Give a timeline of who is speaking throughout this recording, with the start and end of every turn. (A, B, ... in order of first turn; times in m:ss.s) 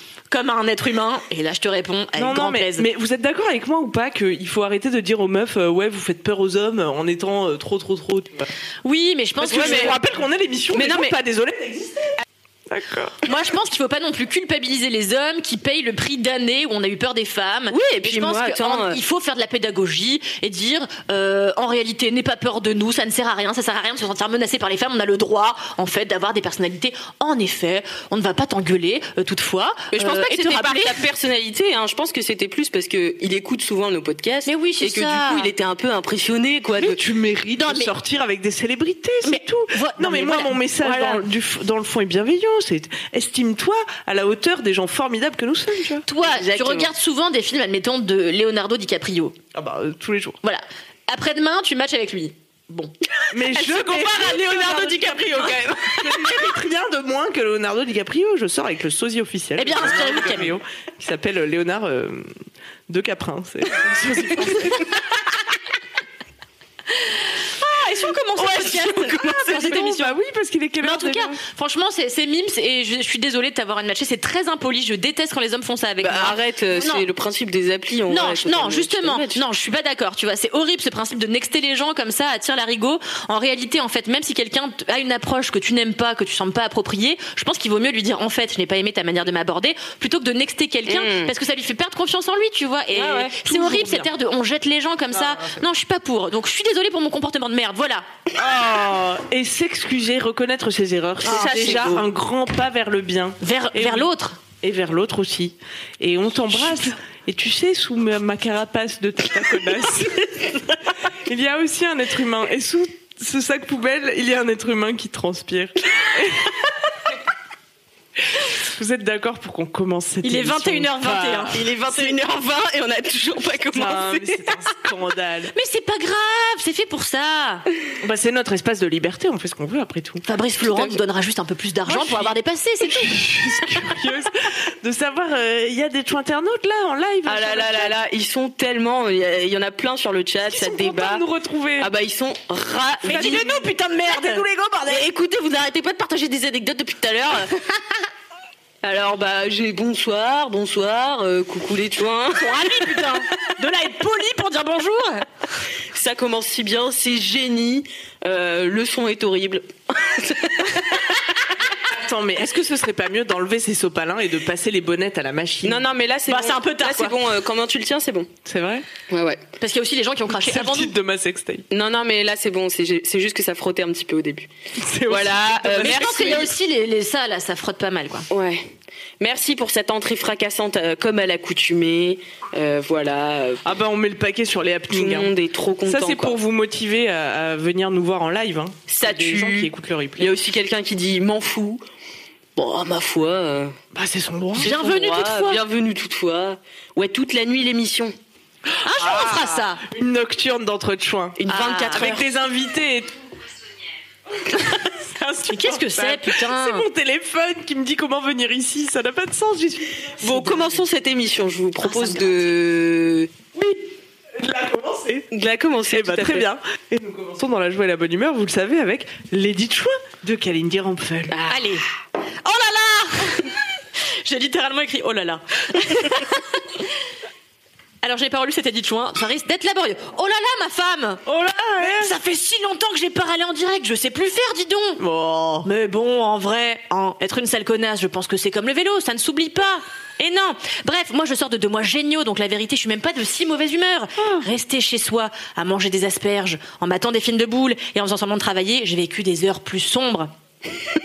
0:00.3-0:02.9 A
0:02.2-0:08.5 B
0:08.8-0:10.0 A
0:09.4-0:12.1 B
0:09.4-0:10.0 C
0:10.7-0:11.1 C
0:12.7-0:13.2 B
0:13.2-0:31.0 A
0:17.7-0:19.0 C
0:29.9-0:37.0 C
0:34.4-0:35.5 A
0:36.8-0:46.0 B
0:37.6-0:37.9 A
0:39.2-0:40.9 A
0:40.8-0:41.2 C
0:46.1-0:49.4 A
0:46.2-0:46.9 C
0:49.5-0:50.4 B
0:50.4-0:52.9 A
0:53.3-1:02.3 B
0:53.5-0:56.4 C
0:59.6-1:00.5 A
1:02.9-1:04.9 B
1:07.1-1:10.1 A
1:08.4-1:09.8 C
1:09.5-1:11.4 B
1:10.8-1:17.0 A
1:16.0-1:19.4 C
1:18.1-1:38.0 A
1:30.9-1:31.3 C
1:32.9-1:33.4 C
1:33.4-1:34.0 B
1:35.1-1:35.6 B
1:38.4-1:44.1 B
1:41.2-1:42.0 C
1:41.2-1:41.8 A
1:43.4-1:44.4 A
1:44.6-1:50.6 B
1:51.2-1:56.6 B
1:58.3-2:01.6 B
2:00.2-2:02.1 A
2:01.5-2:04.4 C
2:03.7-2:05.5 B
2:05.5-2:07.6 A
2:08.0-2:10.2 B
2:10.2-2:13.3 A
2:10.7-2:11.0 C
2:11.9-2:12.3 B
2:12.9-2:18.0 B
2:17.2-2:21.2 C
2:20.4-2:21.9 B
2:21.8-2:23.5 C
2:23.0-2:24.9 A
2:23.1-2:24.4 B
2:24.4-2:27.7 C
2:28.8-2:32.9 C
2:32.4-2:35.2 A
2:35.9-2:41.2 C
2:41.8-2:45.8 B
2:45.6-2:48.3 C
2:46.3-2:47.2 A
2:48.4-2:48.8 B
2:49.1-2:49.4 C
2:49.6-2:50.9 A
2:50.3-2:51.7 B
2:51.7-2:54.5 C
2:54.8-2:56.5 B
2:55.1-2:56.5 C
2:55.7-2:58.3 A
2:58.3-3:03.6 C
3:03.6-3:05.3 B
3:04.9-3:06.4 C
3:05.8-3:10.3 B
3:08.9-3:11.8 C
3:12.6-3:13.8 C
3:13.9-3:14.7 B
3:14.6-3:15.6 A
3:14.6-3:18.2 C
3:18.7-3:21.4 B
3:18.8-3:19.8 A
3:21.4-3:22.3 C
3:21.5-3:22.2 A
3:21.9-3:23.2 B
3:24.4-3:30.1 B
3:25.5-3:26.9 A
3:30.2-3:33.3 C
3:30.2-3:30.7 A
3:31.8-3:32.4 A
3:33.5-3:33.8 B
3:34.4-3:35.3 B
3:35.3-3:36.5 C
3:35.9-3:41.3 B
3:41.3-3:41.6 C
3:41.5-3:41.8 A
3:42.4-3:43.5 A
3:44.2-3:46.6 A
3:48.0-3:51.2 A
3:51.2-3:52.1 B
3:51.8-3:55.0 A
3:55.0-3:55.7 B
3:55.6-4:10.3 A
4:04.2-4:04.4 B